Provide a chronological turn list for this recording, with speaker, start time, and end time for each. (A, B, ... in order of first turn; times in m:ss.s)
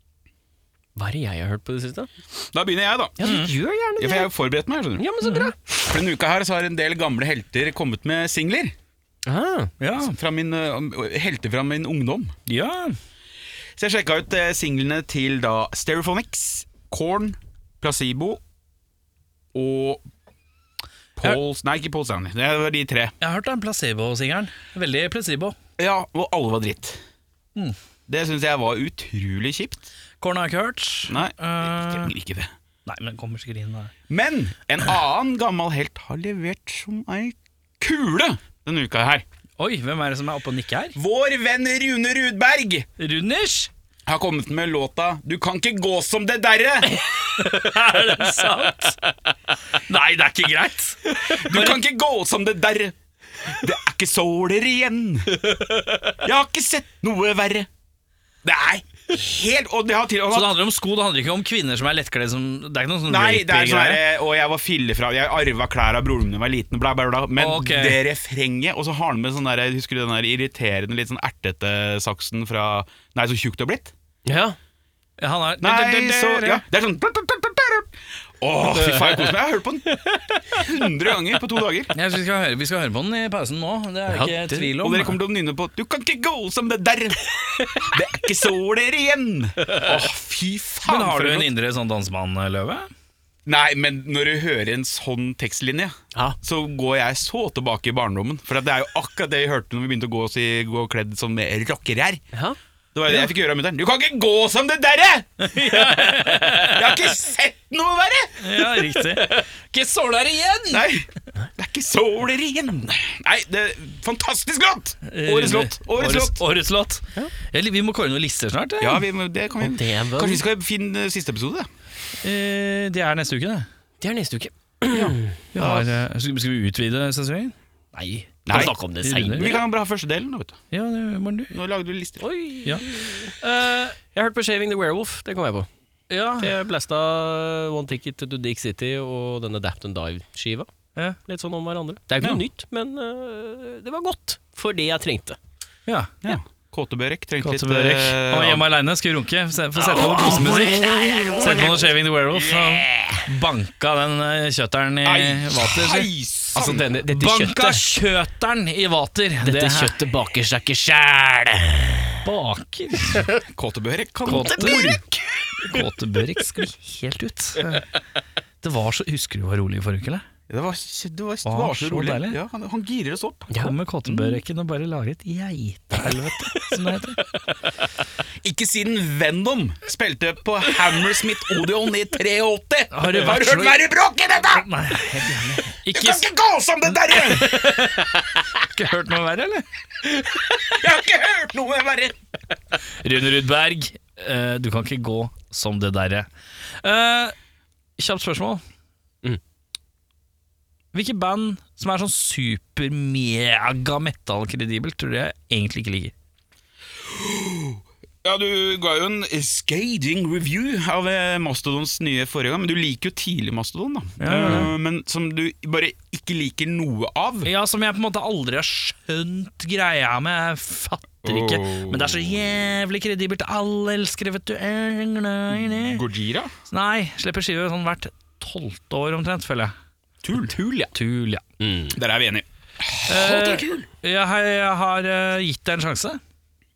0:01.0-0:02.1 A
0:02.5-0:03.2 B
0:03.2-0:04.3 A
0:03.2-0:03.5 C
0:04.0-0:05.1 B
0:05.0-0:05.8 A
0:05.2-0:05.5 C
0:05.8-0:08.7 B
0:09.2-0:09.7 A
0:09.8-0:10.2 C
0:10.0-0:12.3 B
0:12.5-0:13.0 C
0:13.8-0:18.4 B
0:19.5-0:20.0 B
0:21.2-0:23.1 B
0:23.2-0:25.5 C
0:25.8-0:27.0 B
0:28.1-0:29.9 B
0:30.2-0:32.1 C
0:31.1-0:32.5 B
0:32.8-0:33.9 C
0:34.1-0:39.2 B
0:39.6-0:41.0 C
0:41.0-0:42.9 B
0:43.0-0:43.7 C
0:44.1-0:46.9 B
0:47.5-0:48.9 C
0:48.2-0:48.8 A
0:49.9-0:51.8 C
0:51.3-0:55.5 B
0:56.2-0:57.7 B
0:58.4-1:00.6 B
1:00.3-1:04.0 C
1:03.1-1:13.9 B
1:07.4-1:08.0 C
1:14.2-1:14.6 A
1:15.2-1:16.6 C
1:15.6-1:21.9 B
1:18.8-1:19.3 A
1:21.9-1:25.2 C
1:24.1-1:24.6 A
1:24.8-1:31.5 B
1:30.8-1:32.9 C
1:33.4-1:42.2 B
1:42.9-1:48.4 B
1:45.4-1:46.8 C
1:48.4-1:50.9 C
1:50.7-1:56.4 B
1:55.0-1:59.0 C
1:58.8-2:01.7 B
1:59.6-2:00.4 A
2:02.2-2:03.7 C
2:04.0-2:05.4 A
2:04.9-2:05.9 B
2:05.5-2:09.5 C
2:08.4-2:09.6 A
2:08.4-2:08.7 B
2:09.3-2:10.6 B
2:10.7-2:11.5 C
2:11.5-2:12.2 B
2:12.2-2:13.3 A
2:13.4-2:13.9 C
2:14.0-2:15.7 A
2:16.1-2:16.5 C
2:16.4-2:20.7 A
2:21.2-2:25.4 A
2:25.9-2:26.1 C
2:26.2-2:28.6 B
2:27.4-2:36.1 C
2:30.0-2:31.8 A
2:32.8-2:33.1 A
2:35.0-2:36.8 B
2:36.5-2:37.9 A
2:37.1-2:40.0 C
2:39.4-2:42.1 A
2:42.2-2:43.3 C
2:43.5-2:45.0 B
2:44.2-2:44.9 C
2:44.2-2:45.8 A
2:45.6-2:47.8 C
2:48.6-2:50.2 C
2:50.5-2:53.5 B
2:51.4-2:52.4 C
2:53.5-2:57.2 C
2:54.0-2:54.4 B
2:58.4-3:04.7 B
3:02.9-3:03.8 C
3:04.5-3:06.2 C
3:05.9-3:07.8 B
3:07.4-3:07.9 C
3:08.6-3:09.6 C
3:10.7-3:12.2 B
3:13.0-3:16.3 C
3:16.8-3:17.3 C
3:18.0-3:18.6 C
3:20.9-3:26.1 C
3:27.0-3:37.5 B
3:34.2-3:34.7 C
3:37.4-3:46.0 C
3:41.2-3:42.3 B
3:45.8-3:46.5 B
3:46.7-3:49.7 C
3:50.2-3:50.9 B
3:50.9-3:51.4 C
3:51.6-3:51.9 A
3:51.9-3:53.9 B
3:53.1-3:56.2 C